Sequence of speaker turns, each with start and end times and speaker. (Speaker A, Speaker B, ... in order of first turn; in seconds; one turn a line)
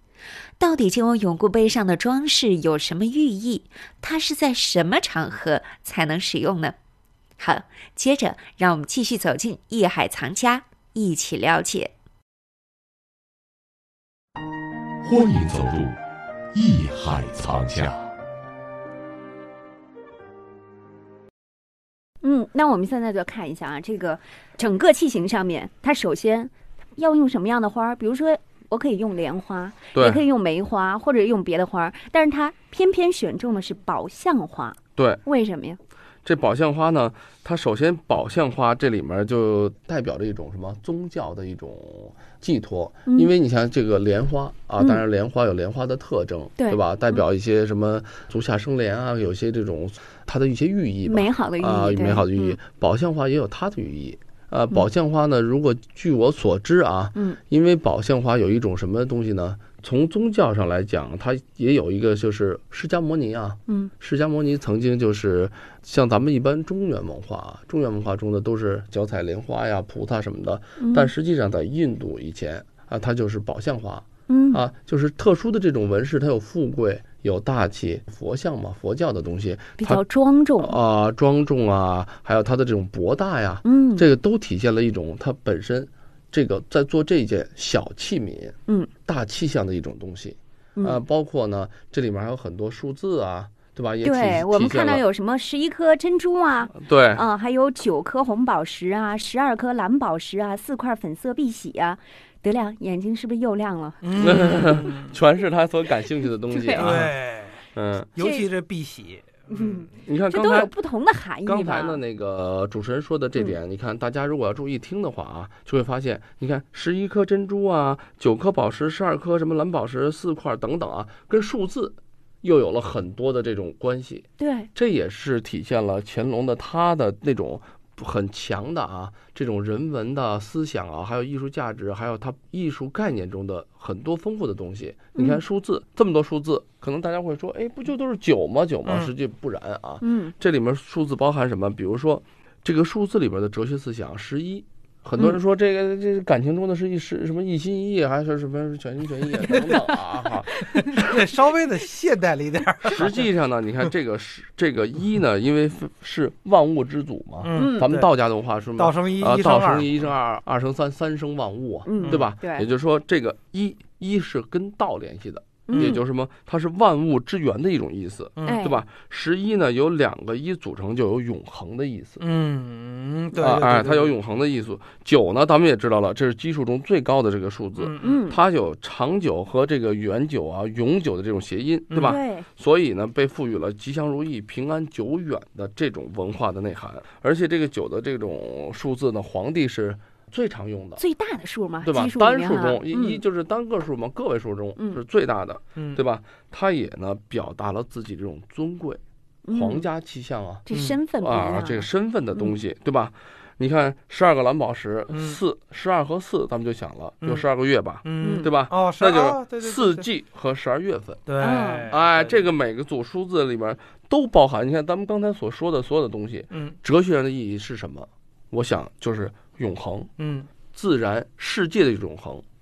Speaker A: 0.6-6.7
Speaker B: 1.7-2.3
Speaker B: 3.0-3.4
Speaker B: 7.4-11.9
Speaker A: 8.0-11.8
Speaker C: 15.0-16.0
Speaker C: 16.5-18.0
Speaker B: 22.2-35.8
Speaker D: 29.9-30.2
Speaker D: 35.0-35.2
Speaker D: 36.2-80.0
Speaker B: 46.6-47.2
Speaker B: 51.1-52.6
Speaker B: 70.8-71.1
Speaker B: 74.3-74.6
Speaker B: 79.8-80.8
Speaker D: 80.6-95.0
Speaker B: 83.6-84.1
Speaker B: 90.8-91.0
Speaker B: 94.0-104.4
Speaker D: 96.7-97.2
Speaker E: 104.0-105.0
Speaker D: 104.2-107.1
Speaker B: 106.5-107.0
Speaker E: 106.8-109.9
Speaker D: 107.7-108.1
Speaker B: 108.2-108.5
Speaker B: 109.5-112.0
Speaker D: 110.0-110.7
Speaker D: 111.4-150.9
Speaker B: 124.4-124.7
Speaker E: 138.9-139.1
Speaker B: 140.0-140.3
Speaker E: 149.4-149.9
Speaker E: 150.7-153.2
Speaker D: 152.9-172.2
Speaker E: 157.4-158.1
Speaker B: 157.5-157.9
Speaker E: 158.7-159.9
Speaker B: 161.9-162.7
Speaker E: 162.0-162.3
Speaker B: 165.7-166.0
Speaker E: 165.7-166.0
Speaker E: 168.4-168.7
Speaker B: 168.4-168.8
Speaker E: 172.2-174.2
Speaker D: 173.4-191.0
Speaker E: 177.8-178.3
Speaker B: 178.0-178.4
Speaker E: 181.9-182.2
Speaker B: 182.0-182.5
Speaker B: 191.0-193.2
Speaker D: 191.8-211.3
Speaker E: 195.8-196.0
Speaker B: 199.5-199.9
Speaker B: 200.7-202.5
Speaker E: 200.7-201.0
Speaker E: 205.1-205.4
Speaker E: 208.0-210.1
Speaker B: 208.2-208.5
Speaker E: 211.3-212.4
Speaker B: 211.4-211.9
Speaker D: 211.9-220.1
Speaker E: 216.5-216.8
Speaker E: 220.2-220.5
Speaker D: 220.7-222.4